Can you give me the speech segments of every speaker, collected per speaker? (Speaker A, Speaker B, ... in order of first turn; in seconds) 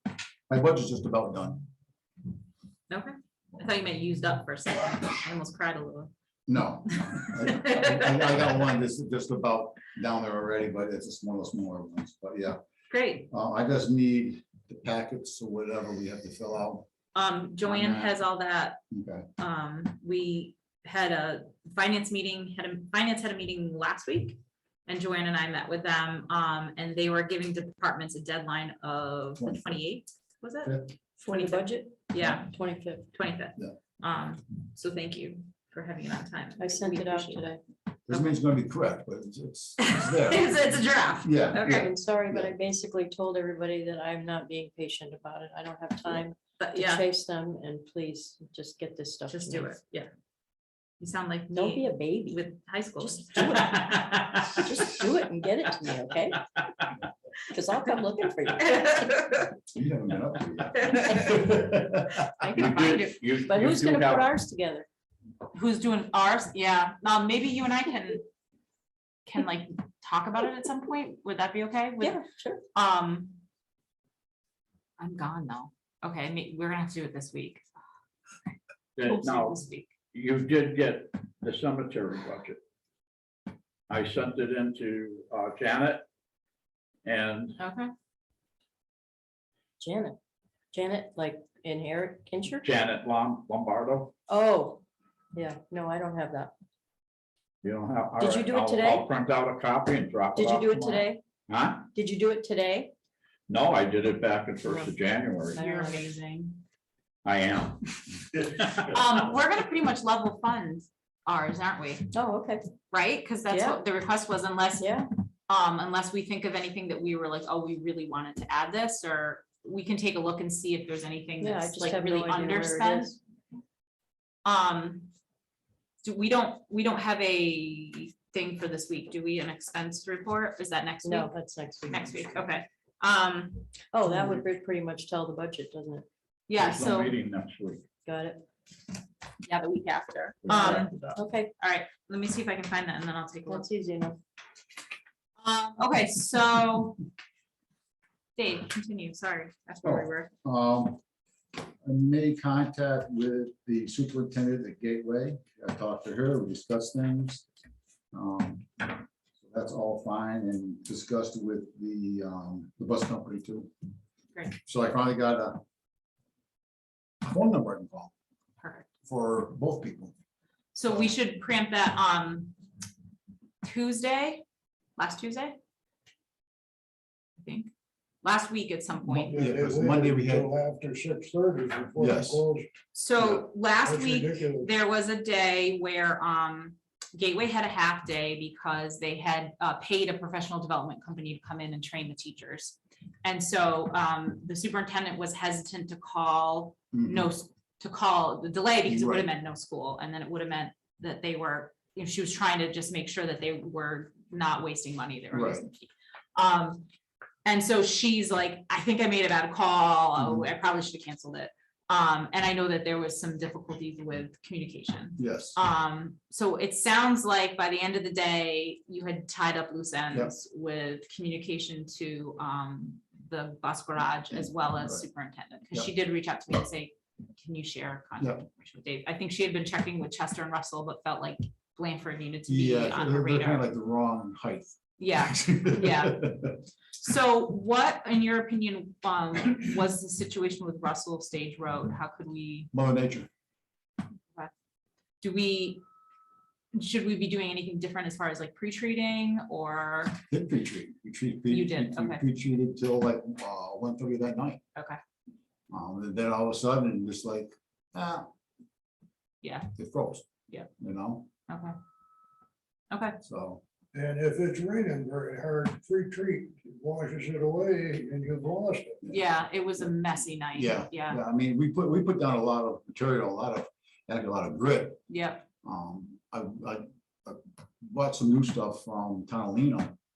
Speaker A: 0.5-1.6, 6.5-12.6, 13.3-16.9, 17.6-18.2, 18.9-19.3, 29.4-29.7, 38.1-42.5, 59.7-62.7, 149.8-151.0, 151.8-157.4, 158.1-163.7, 164.7-165.6, 167.2-168.1, 169.1-170.1, 179.3-180.5, 182.0-182.4, 183.2-183.4, 196.9-197.3, 198.9-199.3, 205.3-205.7, 210.2-210.5, 215.2-215.6, 224.3-225.1, 232.5-236.5, 242.7-243.3, 250.3-254.6, 255.7-258.3, 259.8-260.3, 260.8-261.3, 263.2-263.6, 270.6-275.0, 275.6-280.0
Speaker B: 2.9-6.1, 6.9-8.3, 12.9-13.3, 17.1-18.8, 19.4-37.6, 39.8-41.9, 46.6-47.1, 49.3-50.1, 51.0-54.6, 58.6-59.5, 60.8-61.4, 65.5-68.2, 69.3-72.2, 72.7-73.4, 75.0-77.6, 79.0-79.9, 87.6-87.9, 105.6-106.6, 108.9-112.1, 112.9-123.2, 124.5-125.1, 126.0-131.3, 131.9-133.8, 136.5-137.1, 139.4-143.7, 145.4-147.0, 148.4-150.3, 168.6-168.9, 170.8-172.6, 173.6-174.4, 175.0-175.6, 177.4-177.7, 178.2-179.4, 182.9-206.9, 207.4-233.7, 235.0-236.3, 237.0-242.7, 245.2-245.8, 246.7-250.2, 251.5-252.2, 259.4-259.7, 261.5-261.8, 262.9-263.2, 269.1-271.2, 275.1-275.5
Speaker C: 31.2-33.0, 36.6-37.6, 41.6-49.7, 51.5-52.4, 53.0-56.5, 57.5-59.1, 61.2-61.5, 62.4-64.9, 72.0-72.6, 89.8-90.2, 90.7-92.7, 94.3-94.8, 95.3-96.5, 98.2-99.0, 100.3-101.2, 101.9-102.9, 105.5-106.1, 112.1-112.6, 113.5-113.8, 114.8-115.1, 121.4-123.2, 131.0-132.5, 133.9-136.1, 138.1-138.4, 140.5-141.5, 143.5-144.2
Speaker D: 53.8-54.3, 62.5-64.3, 79.0-79.6, 80.1-82.6, 83.9-86.0, 87.0-87.6, 92.6-94.1, 97.6-101.9, 103.5-105.6, 107.2-108.9, 136.6-137.8, 140.5-141.2
Speaker E: 179.1-182.7, 183.8-184.7, 263.9-269.0